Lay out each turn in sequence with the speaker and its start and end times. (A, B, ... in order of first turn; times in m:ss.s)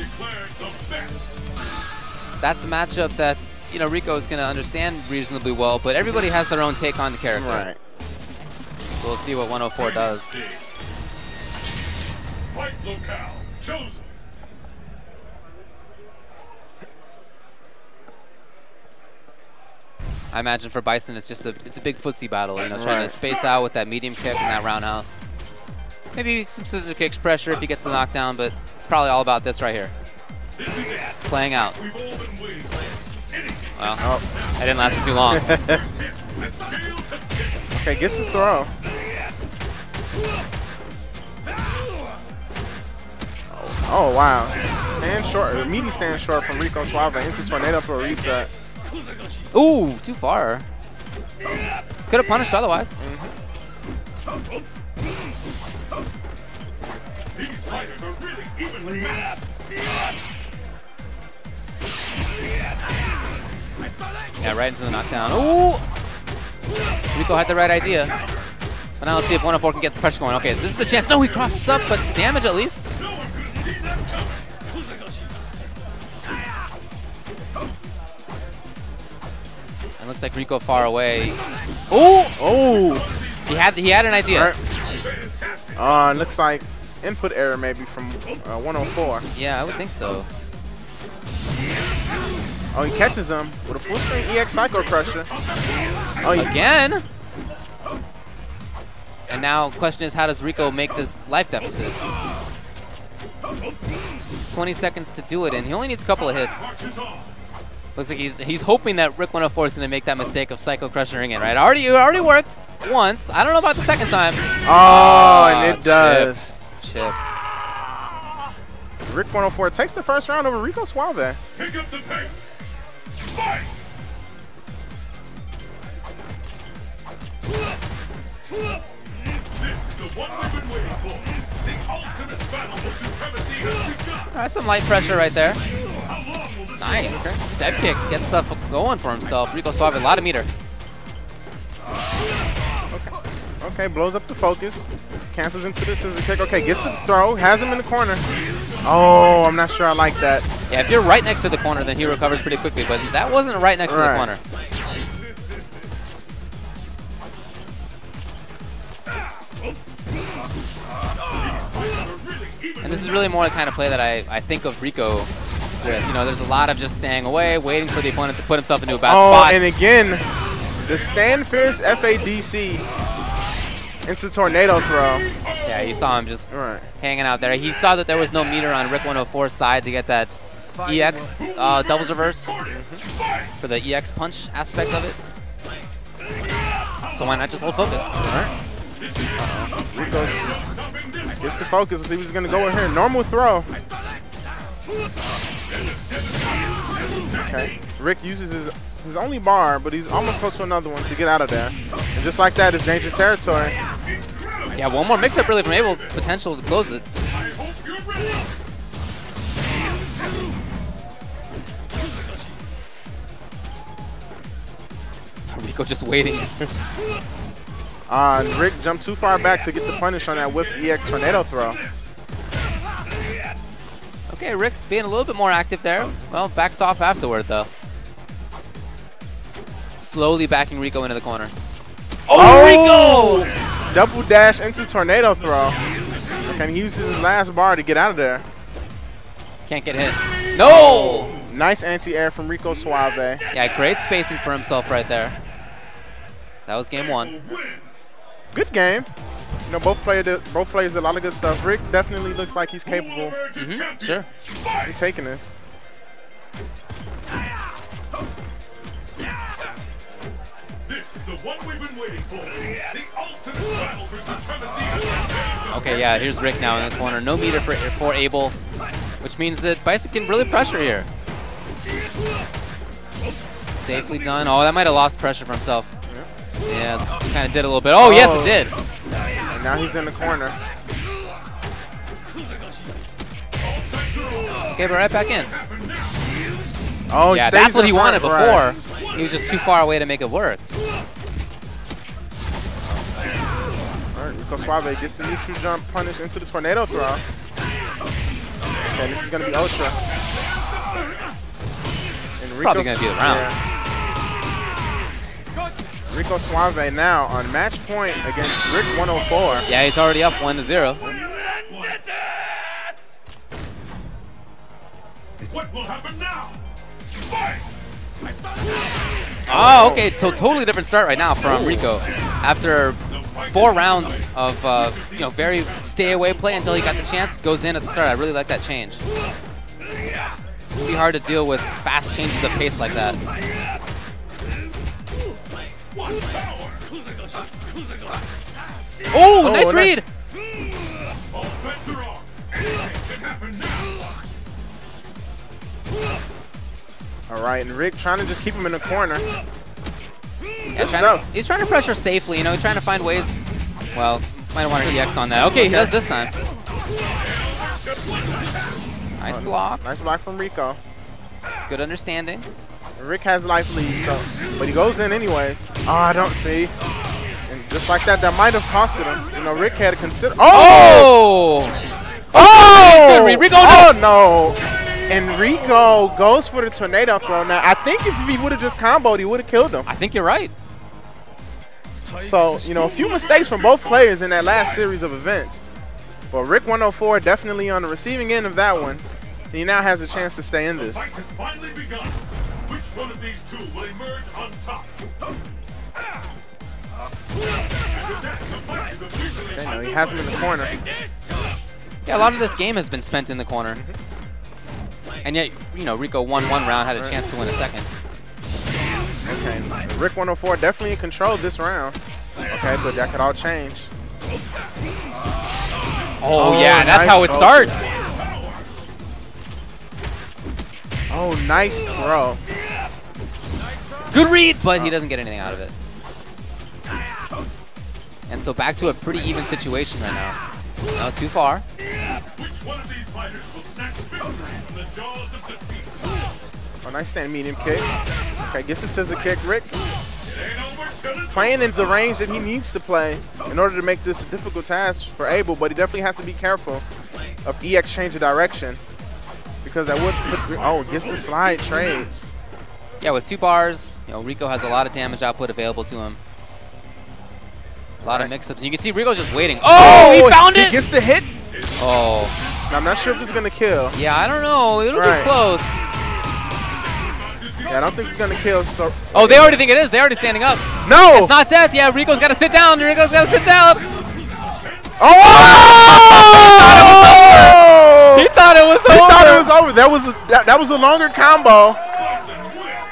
0:00.2-0:01.1 A
0:02.4-0:07.6 B
0:07.3-0:07.8 C
0:08.9-0:10.4 B
0:13.0-0:13.9 A
0:20.3-0:25.2 B
0:22.7-0:23.2 C
0:26.1-0:29.9 B
0:31.2-0:31.8 B
0:32.2-0:32.6 A
0:33.8-0:34.0 B
0:34.6-0:35.5 B
0:35.3-0:35.8 C
0:37.7-0:38.7 C
0:43.5-0:48.5 C
0:49.5-0:50.6 B
0:52.1-0:52.9 B
0:53.0-0:53.3 C
1:04.4-1:05.8 B
1:07.1-1:08.1 B
1:09.0-1:12.8 B
1:20.0-1:21.4 B
1:21.9-1:23.1 C
1:23.4-1:24.5 B
1:24.3-1:24.6 C
1:25.7-1:29.2 C
1:29.3-1:30.3 B
1:32.7-1:35.3 C
1:36.2-1:36.5 C
1:36.3-1:37.0 B
1:39.3-1:42.0 B
1:44.5-1:46.6 B
1:47.9-1:57.2 B
1:54.6-1:56.6 C
1:59.0-2:01.4 C
2:01.7-2:02.4 A
2:10.2-2:11.0 A
2:12.0-2:13.9 A
2:14.3-2:15.6 B
2:16.8-2:20.5 B
2:17.0-2:17.4 C
2:22.9-2:28.2 C
2:28.8-2:30.5 C
2:30.7-2:34.4 B
2:33.8-2:34.3 C
2:42.8-2:49.6 B
2:49.0-2:50.2 C
2:50.8-2:52.8 C
2:54.0-2:55.3 C
2:55.6-2:56.5 B
2:56.5-2:56.9 C
2:57.0-3:00.3 B
3:00.8-3:02.5 B
3:02.6-3:03.0 C
3:03.6-3:05.2 B
3:07.1-3:08.1 B
3:08.2-3:08.5 C
3:09.4-3:10.4 C
3:11.4-3:13.7 C
3:17.4-3:23.8 C
3:24.7-3:27.0 B
3:35.5-3:36.5 B
3:38.1-3:41.8 C
3:44.3-3:47.7 B
3:50.0-3:51.5 B
3:52.3-3:53.5 B
3:52.3-3:55.8 C
3:56.4-3:58.4 C
3:59.6-4:01.3 B
4:00.6-4:03.4 C
4:03.5-4:05.4 B
4:06.6-4:07.4 B
4:08.5-4:09.1 C
4:09.7-4:13.4 C
4:13.5-4:14.2 B
4:14.8-4:15.5 C
4:21.5-4:22.2 A
4:23.1-4:25.0 A
4:25.7-4:28.6 B
4:29.2-4:31.1 B
4:33.8-4:35.9 B
4:36.6-4:38.7 B
4:38.0-4:38.7 C
4:39.5-4:40.6 C
4:44.7-4:45.5 B
4:47.1-4:48.7 C
4:47.3-4:50.6 B
4:54.1-4:57.2 C
4:58.9-5:00.0 C
5:02.4-5:03.6 C
5:02.6-5:03.5 B
5:06.1-5:09.6 C
5:09.7-5:11.0 B
5:19.5-5:29.0 B
5:19.5-5:20.1 C
5:21.4-5:21.9 C
5:30.8-5:33.2 B
5:39.1-5:40.0 B
5:39.4-5:40.0 C
5:47.3-5:49.2 C
5:50.7-5:53.4 B
5:50.8-5:51.2 C
5:53.9-5:56.3 B
5:54.8-5:56.0 C
5:59.2-5:59.8 B
5:59.2-6:00.8 C
6:01.7-6:02.5 B
6:03.0-6:06.7 C
6:07.5-6:11.1 C
6:10.5-6:11.8 B
6:12.3-6:19.9 C
6:12.3-6:13.9 B
6:19.8-6:20.5 B
6:22.1-6:25.6 C
6:26.3-6:31.2 C
6:31.2-6:31.8 A
6:32.9-6:34.4 A
6:39.5-6:40.7 C
6:42.0-6:43.8 B
6:45.2-6:47.9 B
6:49.2-6:52.0 C
6:52.5-6:53.9 C
6:56.2-6:57.9 B
6:56.3-6:57.9 C
7:01.1-7:02.4 C
7:04.1-7:05.7 B
7:04.7-7:05.6 C
7:08.3-7:10.4 B
7:10.9-7:11.6 B
7:12.7-7:15.7 A
7:16.8-7:17.8 C
7:18.4-7:19.7 C
7:21.3-7:26.8 C
7:27.4-7:28.8 C
7:29.6-7:32.1 C
7:33.0-7:36.2 B
7:38.0-7:38.3 C
7:38.0-7:40.8 B
7:39.7-7:41.3 C
7:41.8-7:42.3 B
7:42.7-7:44.0 C
7:43.9-7:45.8 B
7:44.9-7:45.3 C
7:47.7-7:49.6 C
7:49.1-7:53.8 B
7:50.8-7:51.3 C
7:55.0-7:58.3 C
7:55.2-7:59.5 B
7:58.8-8:01.8 C